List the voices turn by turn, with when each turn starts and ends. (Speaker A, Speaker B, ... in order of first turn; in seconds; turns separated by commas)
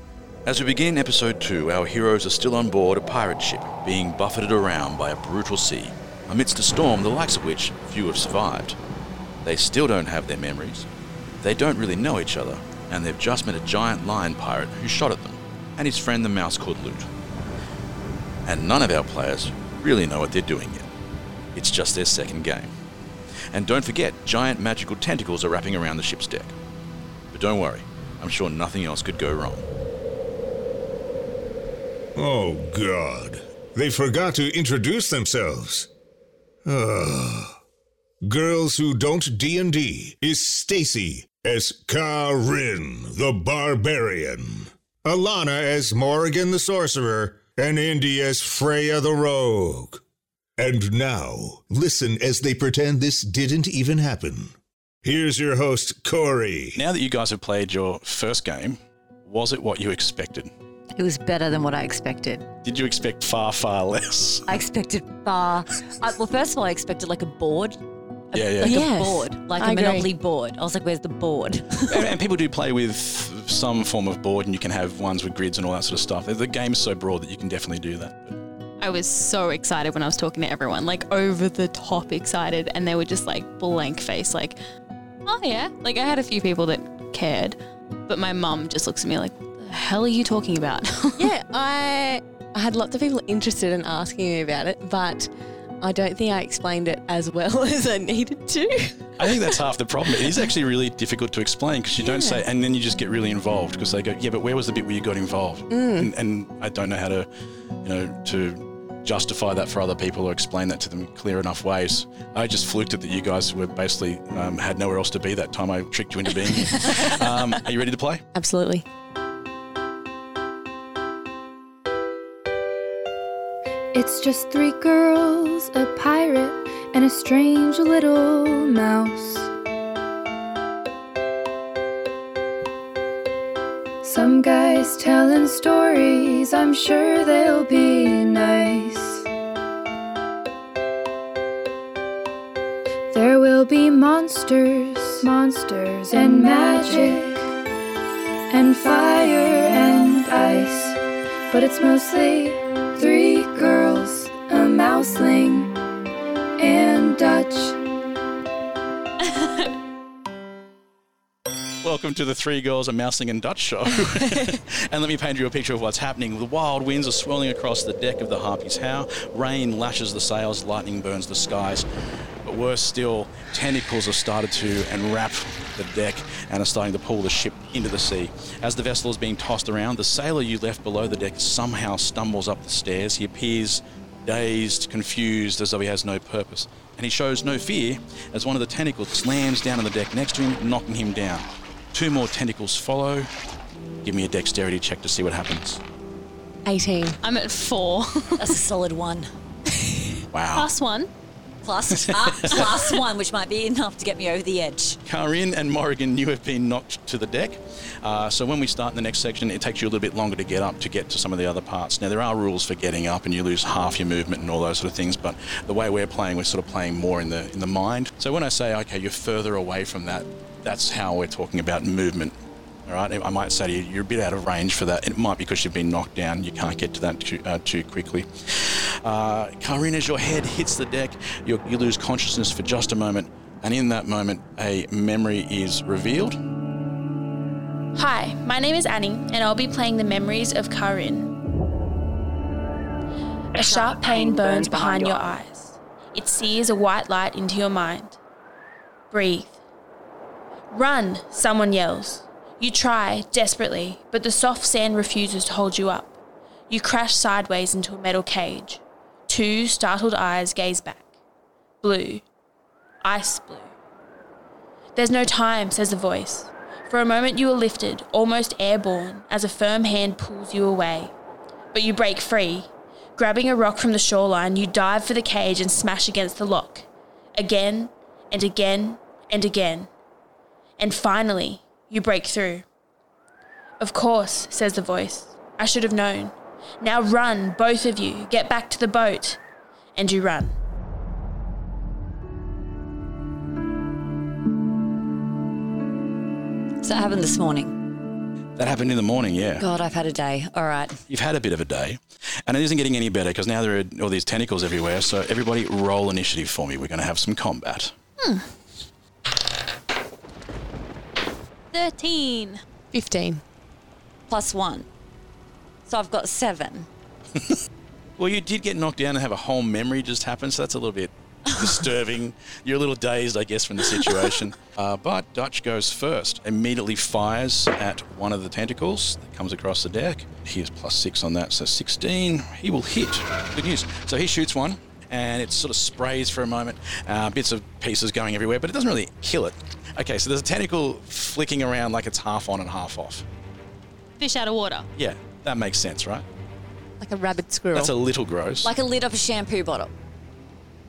Speaker A: 0.4-8.8, Speaker A: 9.4-10.9, Speaker A: 11.4-17.1, Speaker A: 18.4-20.9, Speaker A: 21.5-22.7, Speaker A: 23.5-26.6, Speaker A: 27.3-29.7, Speaker B: 32.1-35.9, Speaker B: 36.6-37.6, Speaker B: 38.2-50.0, Speaker B: 50.6-54.5, Speaker B: 55.0-56.8, Speaker A: 56.8-60.5, Speaker C: 60.9-62.5, Speaker A: 62.6-64.5, Speaker C: 64.5-67.8, Speaker C: 68.3-72.0, Speaker A: 68.3-68.8, Speaker D: 68.6-70.1, Speaker A: 71.9-78.4, Speaker E: 78.8-84.6, Speaker E: 85.2-91.3, Speaker D: 91.2-95.3, Speaker D: 95.8-99.5, Speaker A: 99.2-107.3, Speaker D: 102.0-102.4, Speaker D: 105.7-106.1, Speaker A: 107.8-118.2, Speaker D: 118.3-118.8, Speaker F: 123.9-129.5, Speaker F: 134.0-139.3, Speaker F: 143.1-147.5, Speaker F: 148.5-155.7, Speaker F: 156.6-157.8, Speaker E: 159.2-159.7, Speaker A: 161.8-171.8, Speaker A: 172.4-193.3, Speaker A: 194.0-195.8, Speaker D: 196.6-197.2, Speaker E: 197.2-198.6, Speaker C: 198.4-199.3, Speaker A: 200.3-200.7, Speaker E: 200.5-201.1, Speaker C: 201.6-205.0, Speaker A: 201.9-202.6, Speaker A: 205.1-236.4, Speaker G: 237.9-241.3, Speaker G: 243.6-248.2, Speaker C: 244.1-245.0, Speaker G: 249.1-249.6, Speaker G: 250.7-256.1, Speaker G: 256.7-261.1, Speaker G: 261.8-262.2, Speaker G: 263.0-263.7, Speaker G: 264.9-271.1, Speaker G: 271.7-279.9, Speaker G: 280.8-282.6, Speaker G: 283.8-289.4, Speaker G: 289.9-290.5, Speaker C: 296.8-297.7, Speaker A: 298.6-299.6, Speaker C: 299.6-301.0, Speaker A: 301.1-307.9, Speaker E: 308.2-308.4, Speaker E: 311.7-312.6, Speaker D: 312.9-313.4, Speaker C: 314.3-314.9, Speaker C: 315.9-316.9, Speaker A: 318.2-343.2, Speaker C: 321.5-321.8, Speaker E: 344.2-344.9, Speaker A: 345.0-346.2, Speaker D: 347.0-347.9, Speaker A: 347.7-348.7, Speaker C: 348.6-349.9